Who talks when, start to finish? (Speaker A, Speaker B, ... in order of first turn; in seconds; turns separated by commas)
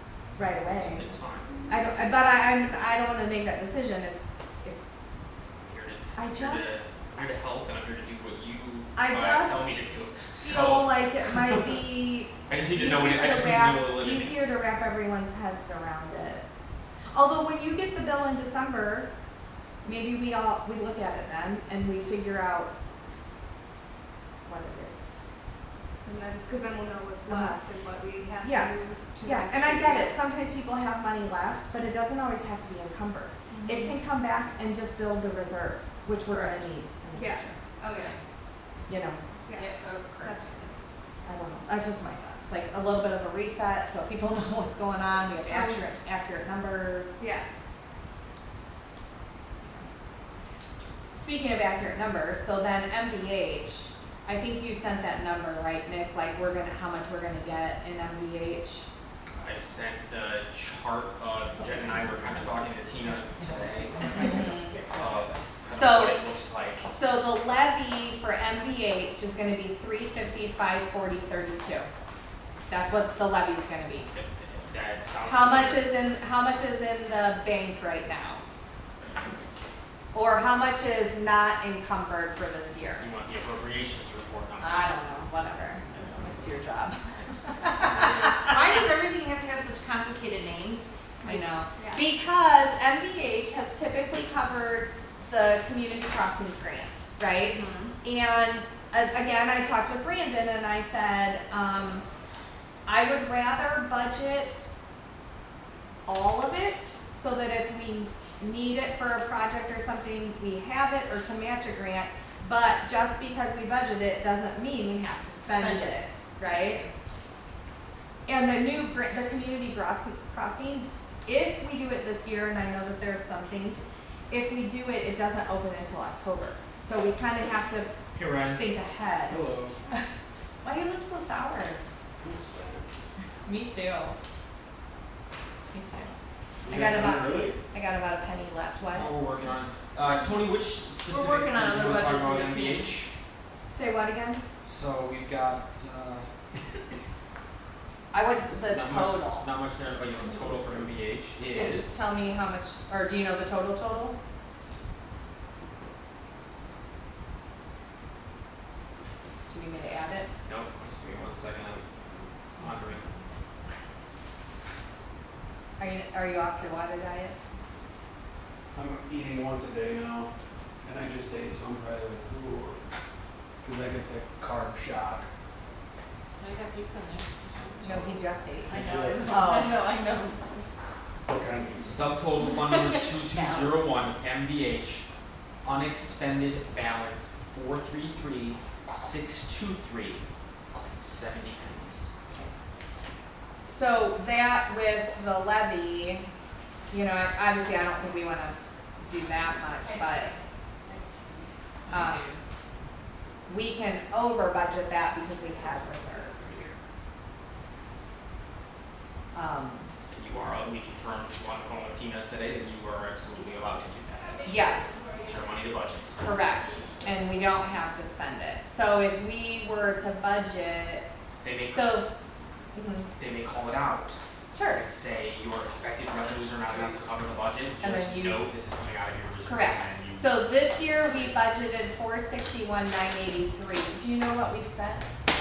Speaker A: 0.4-1.0, Speaker B: 0.7-1.5, Speaker A: 1.7-4.8, Speaker C: 1.7-2.1, Speaker B: 5.6-11.0, Speaker A: 6.2-7.0, Speaker A: 8.9-16.4, Speaker B: 12.5-14.5, Speaker A: 17.1-19.1, Speaker A: 19.8-22.7, Speaker A: 24.4-25.1, Speaker C: 26.0-30.1, Speaker A: 27.3-27.6, Speaker A: 28.4-28.7, Speaker A: 29.2-37.6, Speaker C: 33.5-34.0, Speaker C: 37.1-38.1, Speaker D: 37.9-38.2, Speaker A: 38.9-39.2, Speaker C: 39.4-40.6, Speaker D: 39.5-40.7, Speaker A: 41.2-47.2, Speaker C: 45.4-45.8, Speaker C: 47.2-47.5, Speaker A: 51.1-58.9, Speaker B: 59.3-66.9, Speaker A: 64.1-64.8, Speaker D: 64.1-64.8, Speaker A: 65.7-66.3, Speaker A: 66.8-71.9, Speaker A: 72.7-74.1, Speaker B: 74.1-75.9, Speaker A: 75.2-78.4, Speaker A: 80.1-83.0, Speaker B: 83.0-84.9, Speaker A: 84.6-88.6, Speaker B: 85.9-86.2, Speaker B: 87.1-88.7, Speaker D: 88.5-91.1, Speaker A: 91.2-102.0, Speaker C: 91.8-92.0, Speaker D: 97.5-98.0, Speaker A: 102.8-104.7, Speaker A: 106.0-116.8, Speaker D: 115.5-116.0, Speaker A: 118.2-127.9, Speaker B: 128.1-128.6, Speaker A: 128.5-129.4, Speaker E: 129.3-129.8, Speaker A: 130.6-131.8, Speaker E: 132.2-132.9, Speaker A: 133.4-134.2, Speaker A: 135.7-136.1, Speaker E: 136.6-137.6, Speaker A: 136.7-139.1, Speaker B: 138.9-143.1, Speaker D: 141.1-143.0, Speaker A: 143.7-144.4, Speaker B: 144.6-146.3, Speaker A: 148.1-149.5, Speaker B: 148.6-152.1, Speaker A: 151.5-154.2, Speaker A: 159.5-160.3, Speaker B: 160.4-161.9, Speaker B: 162.6-163.1, Speaker A: 165.8-167.3, Speaker E: 168.7-170.3, Speaker E: 170.8-172.8, Speaker E: 173.6-175.3, Speaker D: 176.4-177.7, Speaker E: 177.8-178.1, Speaker A: 177.8-179.8, Speaker D: 178.7-180.6, Speaker E: 178.7-179.4, Speaker E: 181.3-182.1, Speaker B: 181.8-185.1, Speaker D: 182.4-183.8, Speaker B: 185.6-190.2, Speaker B: 190.8-192.1, Speaker A: 193.7-196.2, Speaker A: 196.9-200.3, Speaker D: 200.1-200.4, Speaker A: 201.9-202.3, Speaker A: 203.5-206.7, Speaker A: 209.3-209.9, Speaker B: 210.1-214.6, Speaker C: 214.2-215.3, Speaker A: 214.4-215.1, Speaker B: 215.2-216.2, Speaker A: 216.2-221.0, Speaker B: 221.4-222.0, Speaker A: 221.7-222.1, Speaker A: 222.7-223.1, Speaker B: 223.2-224.2, Speaker A: 224.5-224.8, Speaker B: 224.7-230.3, Speaker A: 227.8-228.5, Speaker A: 229.4-235.1